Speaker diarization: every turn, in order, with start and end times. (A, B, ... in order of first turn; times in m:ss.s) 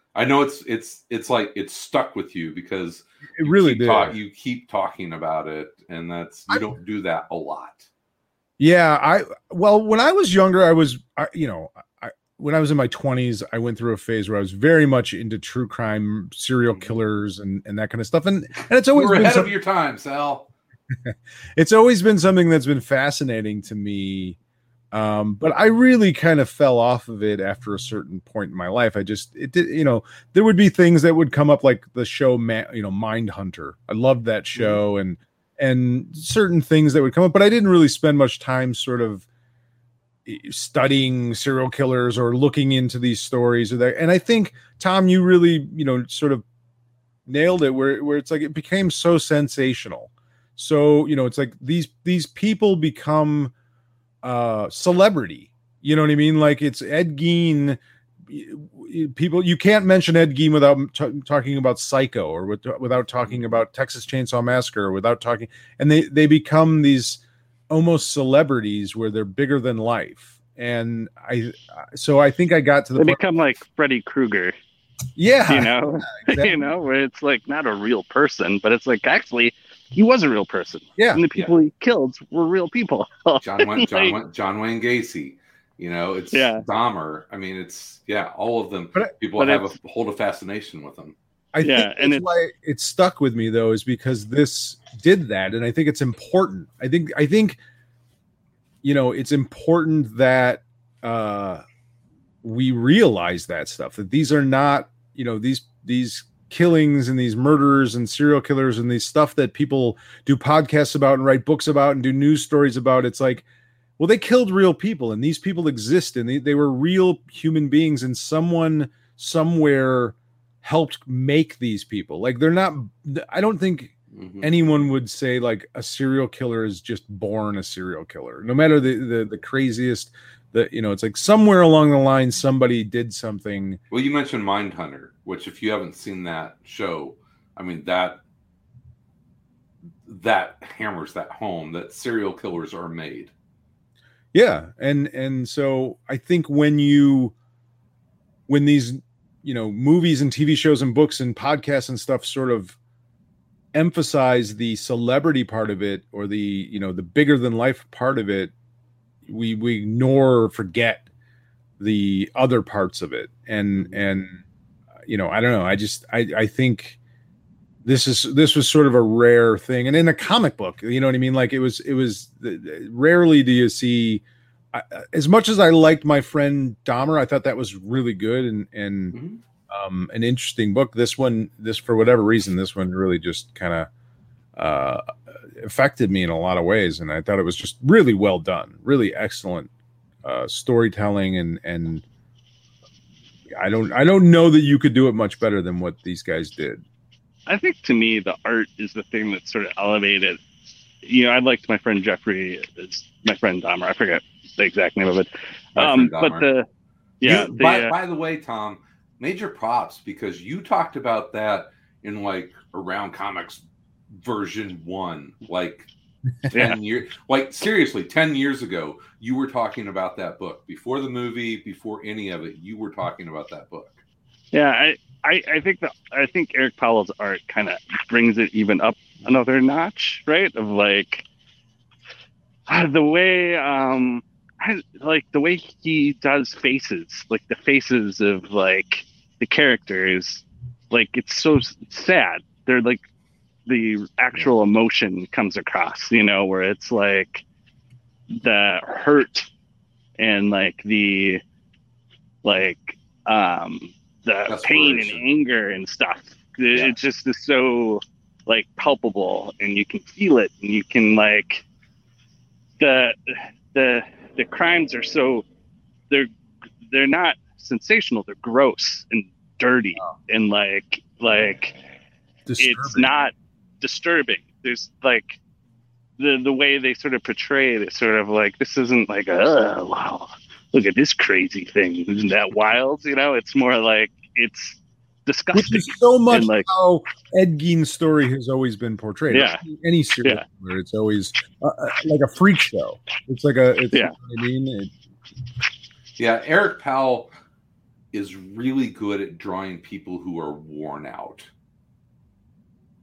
0:00.1-0:07.9 A
0:03.3-0:04.2 B
0:08.6-0:19.5 B
0:18.9-0:20.5 A
0:21.0-0:24.4 B
0:24.9-0:39.2 B
0:34.5-0:34.8 A
0:40.2-0:46.4 B
0:47.2-0:53.5 B
0:54.2-1:13.2 B
1:13.0-1:14.5 C
1:15.2-1:16.6 B
1:15.5-1:24.2 C
1:21.0-1:21.2 B
1:23.4-1:31.1 A
1:26.3-1:26.6 C
1:29.4-1:29.7 C
1:31.5-1:37.6 B
1:31.6-1:32.2 C
1:38.8-1:41.6 B
1:42.4-1:53.4 B
1:54.0-2:13.8 B
2:04.1-2:04.5 A
2:13.9-2:18.2 A
2:20.0-2:23.3 A
2:24.3-2:27.3 B
2:28.5-2:32.8 B
2:33.7-2:38.5 B
2:39.2-2:41.1 B
2:41.8-2:44.4 B
2:43.7-2:44.0 A
2:45.0-2:47.0 B
2:47.8-2:59.2 B
2:59.1-2:59.4 A
2:59.7-3:03.9 B
3:04.6-3:09.7 B
3:10.2-3:12.0 B
3:13.5-3:16.8 B
3:17.5-3:20.4 C
3:21.0-3:26.6 C
3:25.7-3:26.5 A
3:27.2-3:27.9 C
3:27.2-3:33.6 A
3:34.2-3:35.9 A
3:36.5-3:44.0 A
3:36.5-3:36.8 C
3:44.5-3:51.2 C
3:52.7-4:03.0 C
4:03.6-4:07.4 C
4:08.3-4:09.5 C
4:10.2-4:11.4 C
4:12.4-4:21.6 C
4:14.5-4:15.2 A
4:22.8-4:25.4 C
4:26.9-4:31.8 C
4:32.4-4:33.1 B
4:32.6-4:35.4 C
4:36.2-4:46.7 C
4:45.5-4:54.9 B
4:49.3-4:49.6 C
4:56.2-4:57.3 A
4:58.1-5:01.5 A